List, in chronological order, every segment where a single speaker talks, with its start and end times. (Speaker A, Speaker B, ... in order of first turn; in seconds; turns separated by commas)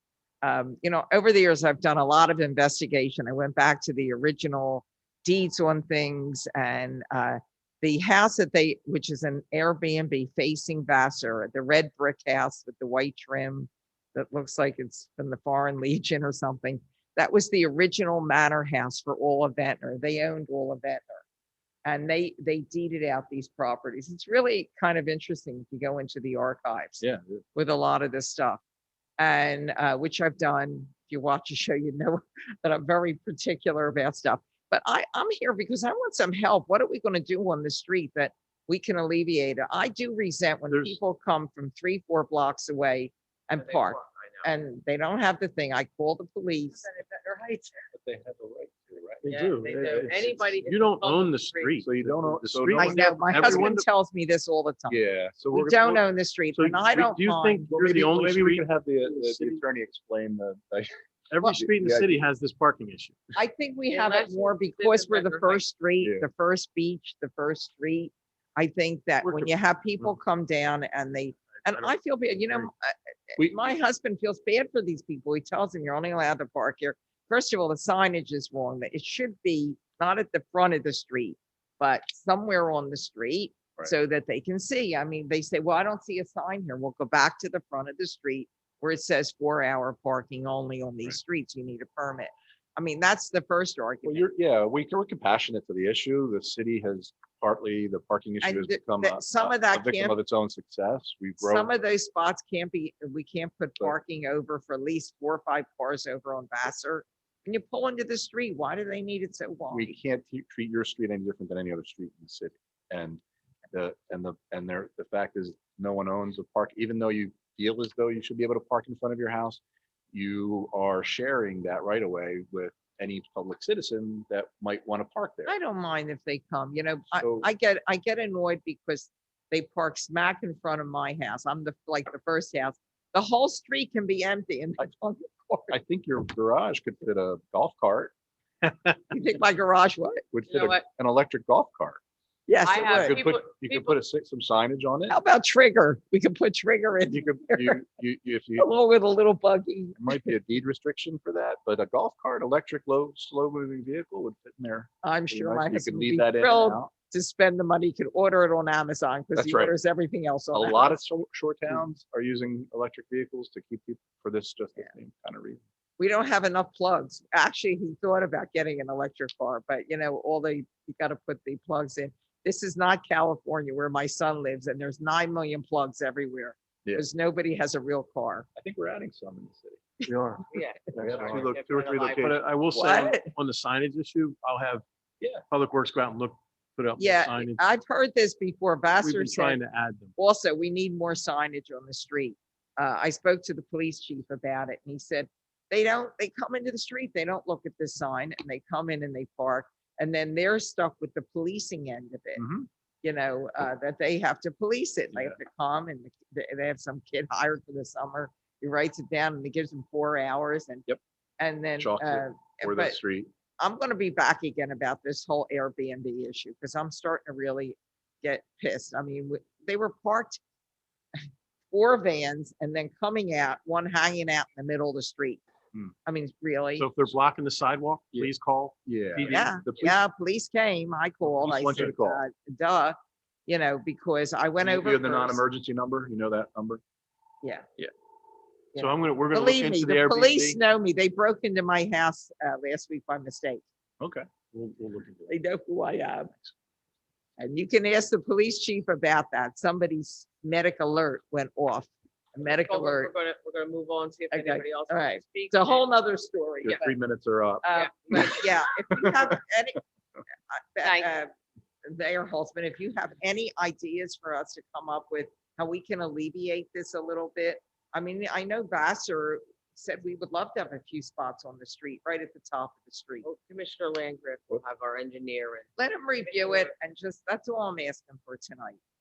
Speaker A: 0.4-21.2, Speaker A: 21.8-27.0, Speaker B: 27.0-27.4, Speaker A: 27.6-28.6, Speaker A: 29.2-46.9, Speaker C: 40.7-41.0, Speaker D: 43.5-44.5, Speaker D: 46.9-47.9, Speaker B: 47.9-49.3, Speaker C: 49.2-53.9, Speaker D: 49.3-51.8, Speaker B: 49.9-50.5, Speaker B: 51.8-53.6, Speaker A: 52.8-55.0, Speaker B: 54.9-56.0, Speaker A: 55.5-57.7, Speaker C: 56.5-59.6, Speaker B: 57.7-62.1, Speaker C: 61.3-63.2, Speaker A: 63.4-94.3, Speaker D: 63.9-65.6, Speaker B: 66.0-66.3, Speaker C: 69.2-69.5, Speaker C: 71.6-71.9, Speaker B: 94.0-101.7, Speaker A: 98.4-100.2, Speaker A: 101.4-109.9, Speaker B: 109.7-113.2, Speaker B: 113.7-119.6, Speaker B: 120.1-125.5, Speaker A: 125.5-135.8, Speaker B: 127.1-127.5, Speaker B: 135.7-138.1, Speaker A: 139.1-140.2, Speaker B: 140.3-142.0, Speaker D: 140.5-140.8, Speaker A: 142.5-143.2, Speaker D: 142.6-143.9, Speaker B: 142.8-145.2, Speaker A: 145.1-147.8, Speaker B: 147.1-148.7, Speaker A: 148.6-150.3, Speaker B: 150.0-156.9, Speaker A: 155.0-161.0, Speaker B: 159.3-159.8, Speaker B: 160.5-165.6, Speaker A: 166.0-178.4, Speaker B: 178.6-179.9, Speaker C: 180.1-181.5, Speaker D: 180.5-182.4, Speaker B: 180.9-182.4, Speaker C: 182.2-184.8, Speaker A: 182.7-183.3, Speaker C: 185.4-187.6, Speaker A: 187.0-189.6, Speaker C: 189.0-190.1, Speaker A: 190.2-202.4, Speaker B: 202.4-202.7, Speaker A: 203.0-210.9, Speaker B: 205.1-205.4, Speaker A: 211.4-213.0, Speaker B: 211.8-213.3, Speaker A: 213.6-220.4, Speaker A: 221.7-225.4, Speaker A: 226.1-226.9, Speaker C: 226.8-229.5, Speaker B: 228.8-230.0, Speaker A: 229.2-232.9, Speaker B: 231.2-232.2, Speaker A: 233.5-235.4, Speaker B: 234.6-236.8, Speaker A: 238.8-243.6, Speaker C: 238.8-240.6, Speaker C: 244.5-245.3, Speaker A: 245.3-246.4, Speaker A: 247.4-253.1, Speaker D: 252.6-255.9, Speaker A: 254.3-256.9, Speaker B: 256.6-258.4, Speaker A: 257.6-259.8, Speaker D: 257.7-258.4, Speaker B: 259.0-259.4, Speaker A: 260.5-261.3, Speaker D: 260.8-261.1, Speaker A: 261.9-273.3, Speaker D: 273.2-276.7, Speaker A: 275.8-278.8